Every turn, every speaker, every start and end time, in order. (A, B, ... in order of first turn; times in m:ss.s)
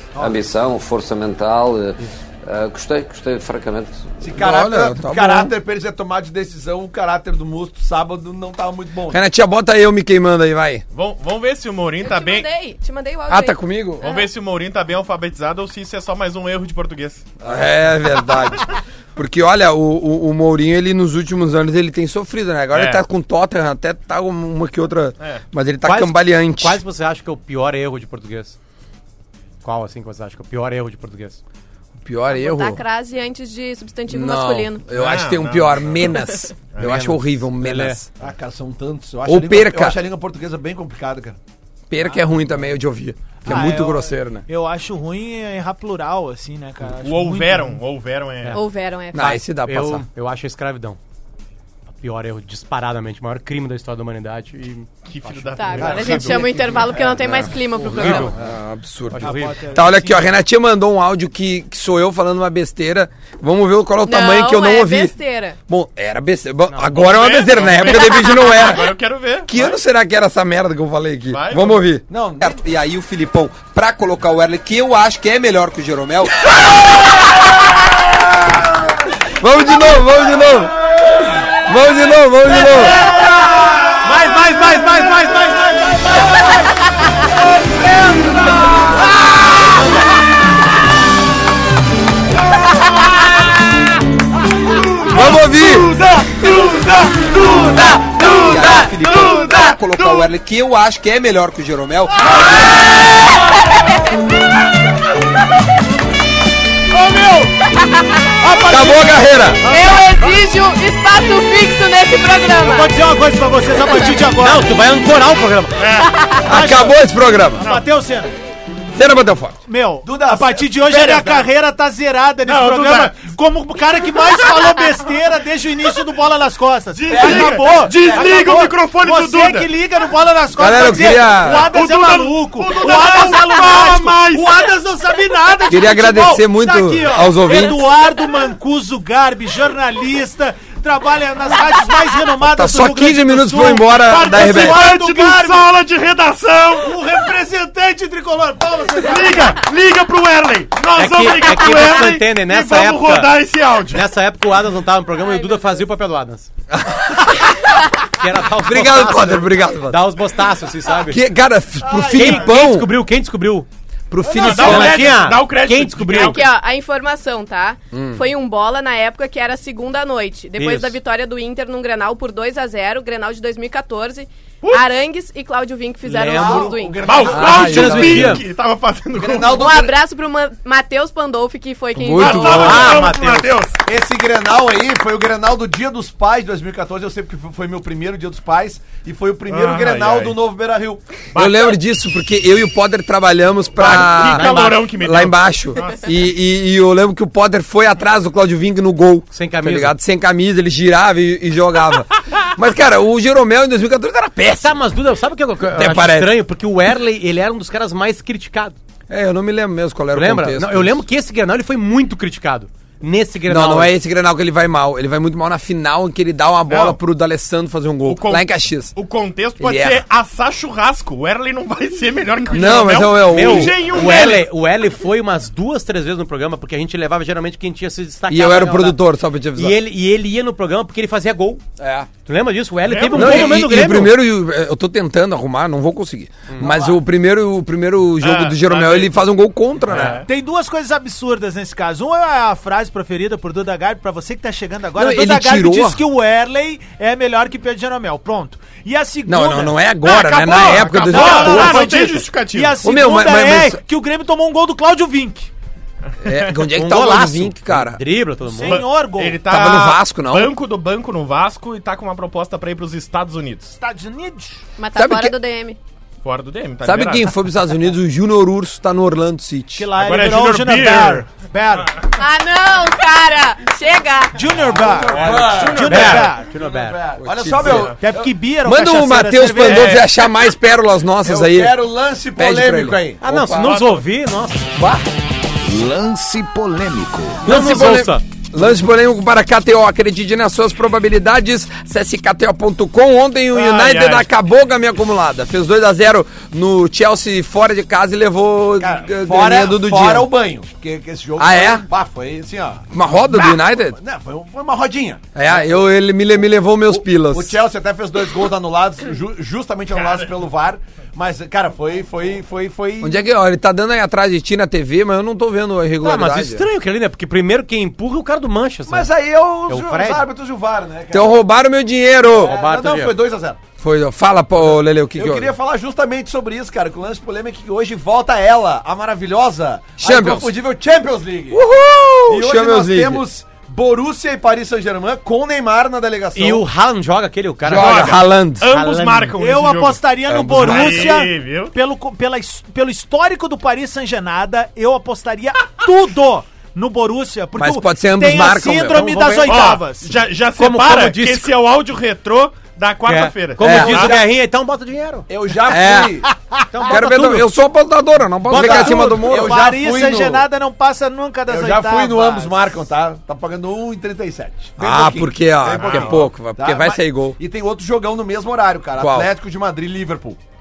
0:00.2-0:04.2 A
0:04.2-0:09.2 B
0:04.4-0:05.5 C
0:09.1-0:10.8 C
0:10.9-0:12.5 D
0:12.0-0:14.3 E
0:13.3-0:14.1 C
0:14.0-0:17.2 D
0:17.4-0:26.8 C
0:22.7-0:23.0 D
0:25.8-0:28.6 F
0:29.6-0:31.4 F
0:32.0-0:32.8 C
0:32.3-0:34.8 E
0:34.1-0:38.1 C
0:34.9-0:36.2 D
0:36.2-0:36.5 E
0:36.7-0:37.0 D
0:36.8-0:38.0 F
0:38.2-0:41.4 B
0:39.2-0:40.0 C
0:41.9-0:44.5 C
0:43.4-0:47.8 G
0:47.0-0:48.6 D
0:48.5-0:49.4 E
0:49.1-0:50.0 C
0:49.2-0:51.0 F
0:52.0-0:57.1 F
0:55.1-0:56.8 D
0:55.6-0:58.3 E
0:57.8-0:58.3 F
0:57.9-1:05.1 C
0:59.1-0:59.6 F
0:59.2-1:00.3 G
1:04.0-1:05.6 E
1:05.7-1:08.9 C
1:06.7-1:07.1 F
1:06.9-1:09.7 D
1:09.5-1:16.9 C
1:11.3-1:11.8 D
1:12.1-1:12.6 B
1:19.4-1:20.8 C
1:21.6-1:23.0 C
1:23.0-1:24.4 B
1:24.0-1:25.7 F
1:27.6-1:28.9 B
1:35.1-1:35.9 C
1:38.3-1:42.4 C
1:39.0-1:40.2 D
1:46.9-1:47.6 G
1:48.4-1:50.4 G
1:48.7-1:49.6 C
1:49.7-1:53.0 E
1:52.6-1:54.8 G
1:54.3-1:55.8 F
1:55.8-1:56.1 D
1:56.1-1:56.4 E
1:56.4-1:57.0 G
1:56.5-1:57.6 C
1:57.6-1:58.3 G
1:57.6-1:57.9 D
1:58.9-1:59.6 C
1:59.7-2:25.7 G
2:00.0-2:01.5 B
2:02.4-2:03.3 D
2:04.2-2:04.5 D
2:06.9-2:09.8 D
2:07.1-2:08.7 B
2:10.6-2:11.7 C
2:11.4-2:14.7 D
2:15.7-2:17.8 C
2:22.4-2:24.9 C
2:23.8-2:27.2 D
2:26.8-2:29.6 G
2:29.0-2:34.1 D
2:31.0-2:33.3 F
2:33.9-2:36.5 F
2:35.2-2:35.6 E
2:36.7-2:37.6 C
2:38.2-2:41.2 F
2:38.6-2:40.0 C
2:41.1-2:42.9 C
2:41.8-2:42.4 B
2:42.1-2:43.7 F
2:44.1-2:45.2 C
2:44.3-2:46.5 D
2:44.4-2:46.5 F
2:44.5-2:44.8 G
2:46.2-2:57.3 E
2:47.9-2:48.2 C
2:50.6-2:51.0 F
2:56.0-2:58.4 F
2:56.4-2:58.3 B
2:57.0-2:59.7 D
2:57.3-2:58.4 C
2:59.2-3:00.0 B
2:59.5-3:02.9 E
3:02.0-3:03.0 C
3:02.2-3:03.8 D
3:02.4-3:03.6 F
3:03.9-3:11.0 B
3:09.5-3:10.4 D
3:11.3-3:11.7 D
3:11.4-3:24.8 C
3:13.8-3:16.1 D
3:13.8-3:14.7 F
3:19.3-3:20.0 F
3:24.6-3:28.8 F
3:25.7-3:26.4 C
3:29.1-3:31.0 C
3:30.1-3:33.9 F
3:33.5-3:39.0 C
3:36.7-3:37.0 D
3:38.1-3:44.5 D
3:39.6-3:40.0 C
3:42.5-3:43.8 C
3:43.3-3:49.0 F
3:48.3-3:49.8 C
3:49.6-3:51.6 F
3:51.8-3:52.1 C
3:52.3-3:54.2 F
3:52.9-3:53.9 D
3:53.1-4:00.2 C
3:56.5-3:57.0 F
3:58.2-3:59.2 D
3:59.9-4:00.3 D
4:00.2-4:15.5 G
4:05.0-4:06.0 C
4:09.3-4:12.2 C
4:10.2-4:12.8 D
4:12.8-4:13.8 C
4:16.2-4:18.0 C
4:16.8-4:18.8 F
4:18.5-4:19.4 G
4:18.6-4:23.7 D
4:19.5-4:20.5 C
4:23.8-4:24.6 G
4:24.8-4:25.8 E
4:25.0-4:25.4 C
4:26.2-4:27.4 D
4:26.8-4:29.9 C
4:29.8-4:32.0 G
4:30.0-4:31.3 D
4:32.2-4:34.4 E
4:34.4-4:36.5 G
4:34.8-4:36.4 D
4:34.8-4:38.3 B
4:35.8-4:37.0 F
4:37.2-4:37.9 C
4:37.6-4:38.0 D
4:37.9-4:40.0 G
4:38.6-4:41.8 C
4:39.6-4:40.2 D
4:41.2-4:43.2 B
4:42.4-4:43.7 C
4:43.2-4:44.7 F
4:43.6-4:44.0 D
4:44.8-4:45.0 C
4:47.4-5:00.3 C
4:47.4-4:48.2 F
4:53.5-4:54.3 D
4:58.8-5:05.8 B
5:01.4-5:01.9 C
5:02.9-5:04.0 C
5:05.4-5:07.6 C
5:06.9-5:13.2 B
5:09.9-5:10.3 D
5:13.0-5:16.6 C
5:16.0-5:19.1 F
5:18.9-5:21.4 B
5:19.7-5:20.2 F
5:21.1-5:22.6 C
5:22.3-5:23.6 B
5:22.4-5:23.1 F
5:23.8-5:25.5 C
5:25.1-5:31.6 B
5:30.0-5:30.5 C
5:31.5-5:33.2 C
5:32.3-5:36.6 B
5:36.4-5:39.4 F
5:37.6-5:38.7 C
5:37.7-5:41.8 D
5:39.4-5:50.2 G
5:40.3-5:41.1 C
5:47.6-5:49.2 C
5:48.9-5:49.6 F
5:49.4-5:54.2 D
5:50.6-5:51.5 F
5:53.1-5:55.3 F
5:53.6-5:54.2 C
5:55.3-5:56.3 B
5:55.7-5:56.2 C
5:56.7-5:57.5 F
5:56.8-5:57.0 G
5:56.9-5:59.6 C
5:58.4-5:59.2 F
5:58.6-6:00.5 B
5:58.7-6:02.6 G
6:01.5-6:10.4 B
6:04.8-6:07.4 C
6:05.6-6:06.3 D
6:09.0-6:09.3 C